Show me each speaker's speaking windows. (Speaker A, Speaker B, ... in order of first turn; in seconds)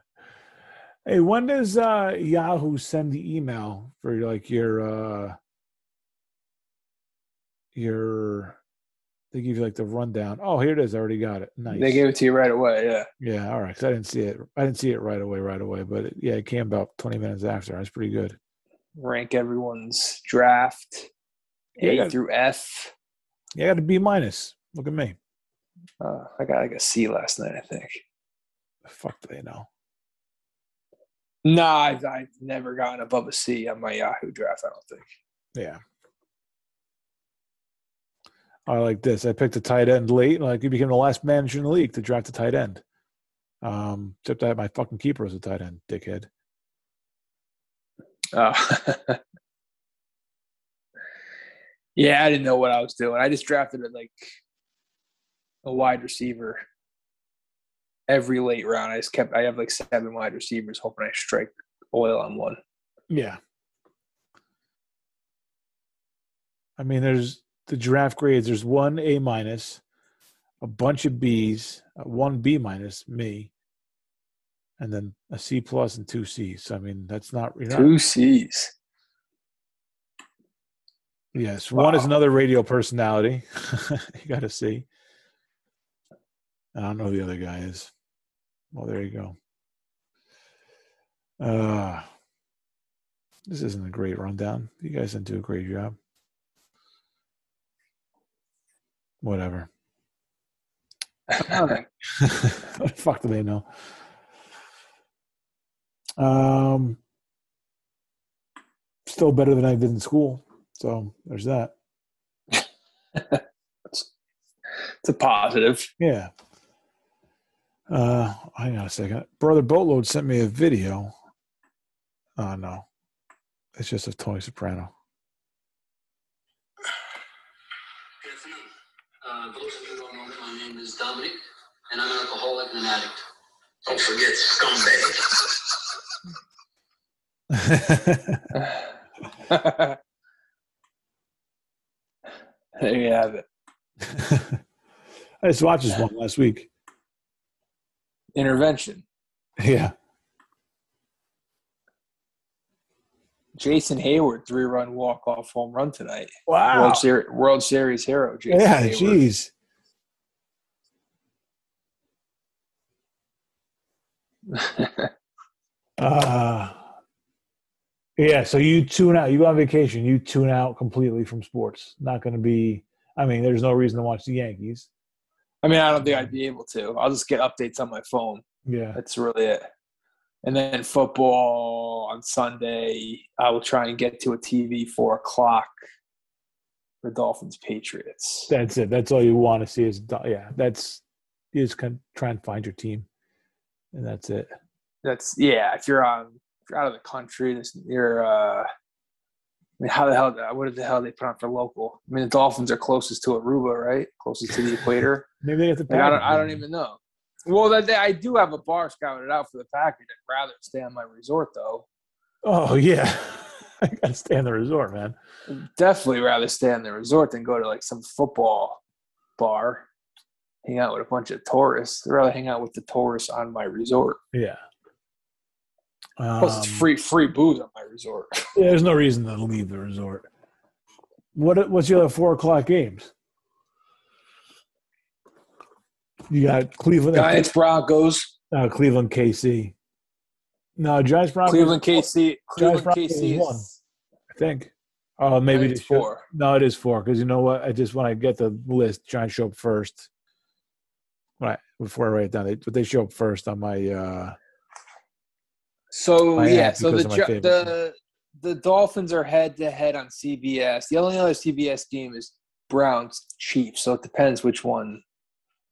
Speaker A: 1.1-5.4, 7.7-8.6, 9.3-12.0, 13.2-18.4, 21.8-22.1, 23.6-25.2, 28.9-29.7, 35.5-35.8, 38.7-42.8, 43.6-46.3, 63.1-63.4, 66.8-69.8, 70.6-73.5, 74.8-77.9, 81.3-84.9, 86.8-87.9, 88.7-89.4, 91.4-92.1, 93.5-96.0, 99.2-99.7, 101.4-103.7, 106.2-107.0, 109.1-111.7, 116.0-116.3, 117.9-121.1, 122.4-122.9, 123.8-124.9, 137.5-138.5, 144.0-144.6, 145.4-146.7, 149.6-149.9, 156.5-157.1, 158.5-159.5, 166.0-166.8, 168.2-174.9, 176.0-176.3, 178.7-179.0, 188.5-193.1, 193.9-194.5, 205.4-206.6, 212.4-215.2, 224.3-224.6, 226.2-226.9, 228.6-230.3, 231.3-233.1, 236.3-237.4, 238.5-239.8, 240.8-242.0, 242.6-243.7, 244.3-250.1, 251.4-254.4, 256.4-257.7
Speaker B: 11.7-13.1, 19.0-21.1, 21.8-22.9, 26.0-28.0, 31.4-35.1, 48.3-49.2, 52.0-54.3, 55.6-56.6, 58.1-62.6, 77.7-78.7, 81.8-82.1, 101.3-101.8, 113.2-114.1, 115.0-115.9, 138.6-138.8, 139.5-140.0, 142.8-143.4, 148.3-149.1, 153.6-159.2, 164.5-165.1, 175.6-178.4, 179.0-179.7, 180.4-185.7, 187.0-188.5, 195.0-198.7, 199.8-205.3, 205.9-211.9, 215.5-218.8, 219.4-219.9, 220.7-224.2, 226.4-228.6, 237.1-238.3, 241.5-243.8, 245.5-246.2, 255.9-265.0
Speaker C: 128.2-128.7, 129.2-131.4, 131.9-133.2, 133.9-135.5